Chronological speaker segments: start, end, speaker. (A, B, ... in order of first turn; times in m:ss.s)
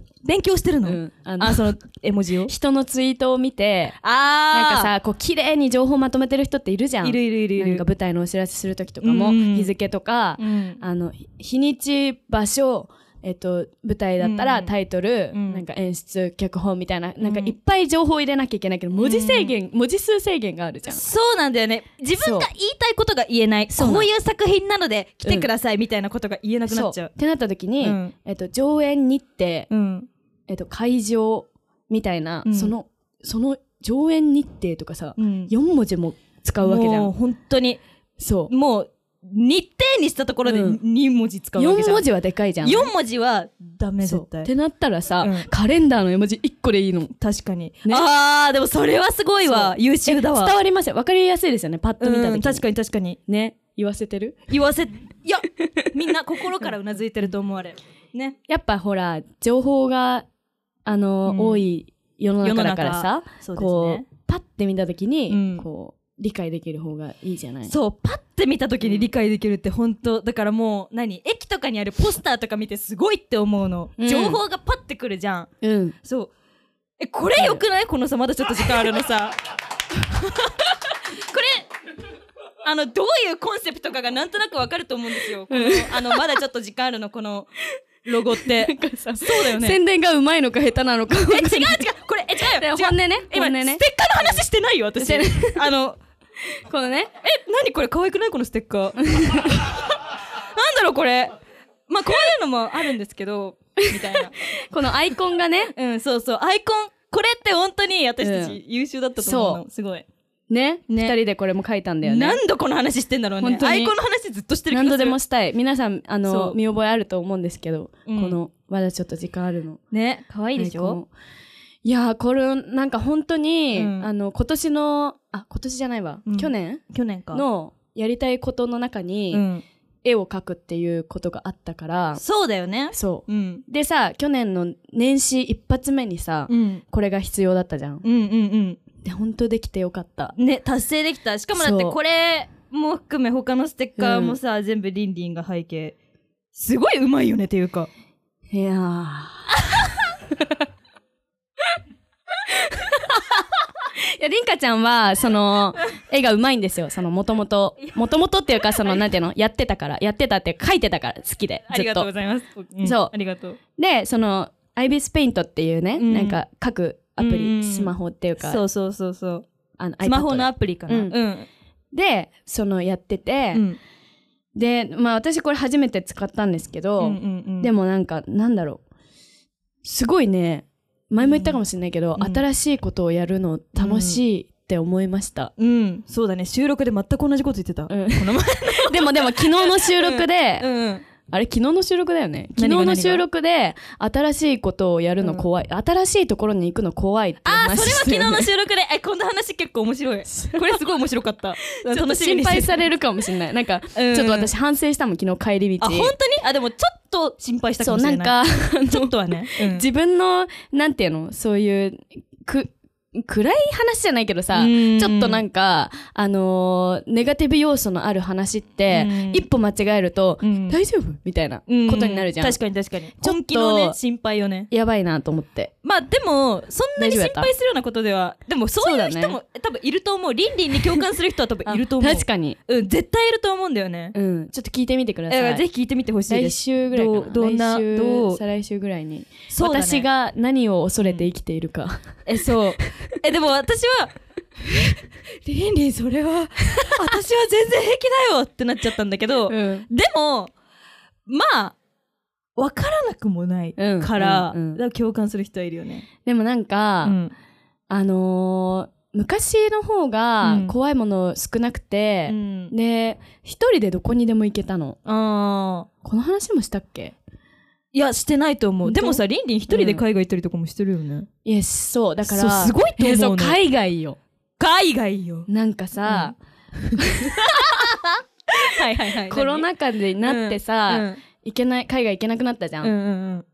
0:00.2-0:02.5 A
0:00.8-0:01.7 B
0:02.5-0:04.0 B
0:04.0-0:04.9 A
0:04.5-0:21.0 B
0:07.0-0:07.8 A
0:09.0-0:09.8 A
0:10.4-0:10.8 A
0:14.2-0:14.7 A
0:15.3-0:15.6 A
0:17.2-0:17.5 A
0:19.0-0:19.6 A
0:20.8-0:27.1 A
0:22.2-0:22.5 B
0:23.7-0:24.1 B
0:26.7-0:29.7 B
0:27.8-0:28.1 A
0:29.7-0:30.1 A
0:30.5-0:37.1 B
0:32.4-0:32.7 A
0:35.2-0:35.5 A
0:36.6-0:37.8 A
0:38.2-0:38.5 B
0:38.5-0:42.1 A
0:40.5-0:40.8 B
0:41.6-0:42.9 B
0:42.6-0:44.5 A
0:44.0-0:47.1 B
0:45.2-0:45.5 A
0:47.2-0:50.5 A
0:49.4-0:52.6 B
0:52.0-0:53.2 A
0:53.3-0:54.4 B
0:54.5-0:58.4 A
0:55.6-0:55.9 B
0:58.5-1:00.2 B
1:00.9-1:07.7 B
1:01.2-1:01.7 A
1:02.4-1:04.0 A
1:05.3-1:05.6 A
1:07.7-1:15.5 A
1:08.8-1:09.1 B
1:14.0-1:14.4 B
1:15.6-1:16.0 B
1:16.0-1:16.3 A
1:17.0-1:19.4 A
1:17.4-1:17.6 B
1:20.1-1:21.7 A
1:22.6-1:29.8 A
1:25.5-1:26.2 B
1:28.4-1:31.9 B
1:31.2-1:36.0 A
1:32.4-1:34.4 B
1:35.0-1:35.6 B
1:36.7-1:37.1 B
1:37.2-1:39.0 A
1:39.0-1:39.7 B
1:40.4-1:41.4 A
1:41.9-1:44.3 A
1:43.8-1:45.7 B
1:45.8-1:50.1 A
1:48.2-1:48.6 B
1:49.2-1:49.6 B
1:50.5-1:52.4 B
1:50.9-1:51.2 A
1:52.0-1:55.2 A
1:53.4-1:53.9 B
1:54.7-1:59.8 B
1:56.2-1:56.6 A
1:58.1-1:58.4 A
1:59.9-2:01.0 A
2:00.6-2:01.1 B
2:01.8-2:09.4 B
2:03.8-2:04.1 A
2:06.3-2:07.4 A
2:09.3-2:09.6 A
2:10.0-2:12.2 B
2:12.2-2:13.6 A
2:12.9-2:18.0 B
2:16.5-2:16.8 A
2:18.0-2:18.8 A
2:19.0-2:20.3 B
2:20.3-2:26.0 A
2:21.6-2:22.0 B
2:24.0-2:24.4 B
2:26.5-2:27.9 A
2:28.5-2:30.6 B
2:32.5-2:33.6 B
2:34.2-2:42.1 B
2:38.6-2:39.0 A
2:41.7-2:43.6 A
2:42.8-2:43.1 B
2:43.8-2:48.6 B
2:46.0-2:46.4 A
2:47.2-2:49.4 A
2:49.8-2:51.1 B
2:50.0-2:51.5 A
2:51.9-2:53.6 B
2:53.5-2:53.8 A
2:54.6-2:58.8 B
2:57.0-2:57.7 A
2:59.8-3:05.5 B
3:01.2-3:01.6 A
3:02.2-3:02.4 A
3:03.8-3:04.2 A
3:05.6-3:11.0 A
3:07.9-3:10.7 B
3:11.3-3:18.5 B
3:12.6-3:13.2 A
3:15.2-3:15.4 A
3:17.4-3:22.9 A
3:20.3-3:20.8 B
3:21.6-3:26.1 B
3:23.9-3:24.5 A
3:25.8-3:29.8 A
3:27.8-3:42.6 B
3:34.5-3:35.4 A
3:38.9-3:39.4 A
3:40.4-3:40.8 A
3:41.7-3:44.7 A
3:43.2-3:44.0 B
3:44.7-3:45.7 B
3:45.8-3:54.1 A
3:47.0-3:47.5 B
3:48.8-3:49.4 B
3:51.7-3:52.6 B
3:54.1-3:55.6 B
3:55.3-3:58.4 A
3:56.3-4:03.2 B
3:59.5-4:00.1 A
4:01.0-4:01.2 A
4:02.2-4:04.1 A
4:05.4-4:10.5 A
4:09.5-4:09.9 B
4:11.3-4:11.8 A
4:12.6-4:16.1 A
4:13.8-4:14.8 B
4:16.2-4:17.2 B
4:17.0-4:17.3 A
4:17.9-4:25.0 B
4:20.4-4:20.7 A
4:22.2-4:22.7 A
4:25.0-4:25.9 A
4:26.0-4:27.2 B
4:27.9-4:31.3 A
4:28.8-4:30.0 B
4:31.4-4:34.2 B
4:32.2-4:33.6 A
4:34.6-4:35.5 A
4:35.5-4:36.4 B
4:36.0-4:39.7 A
4:37.0-4:37.9 B
4:38.8-4:42.9 B
4:40.2-4:41.2 A
4:42.8-4:43.4 A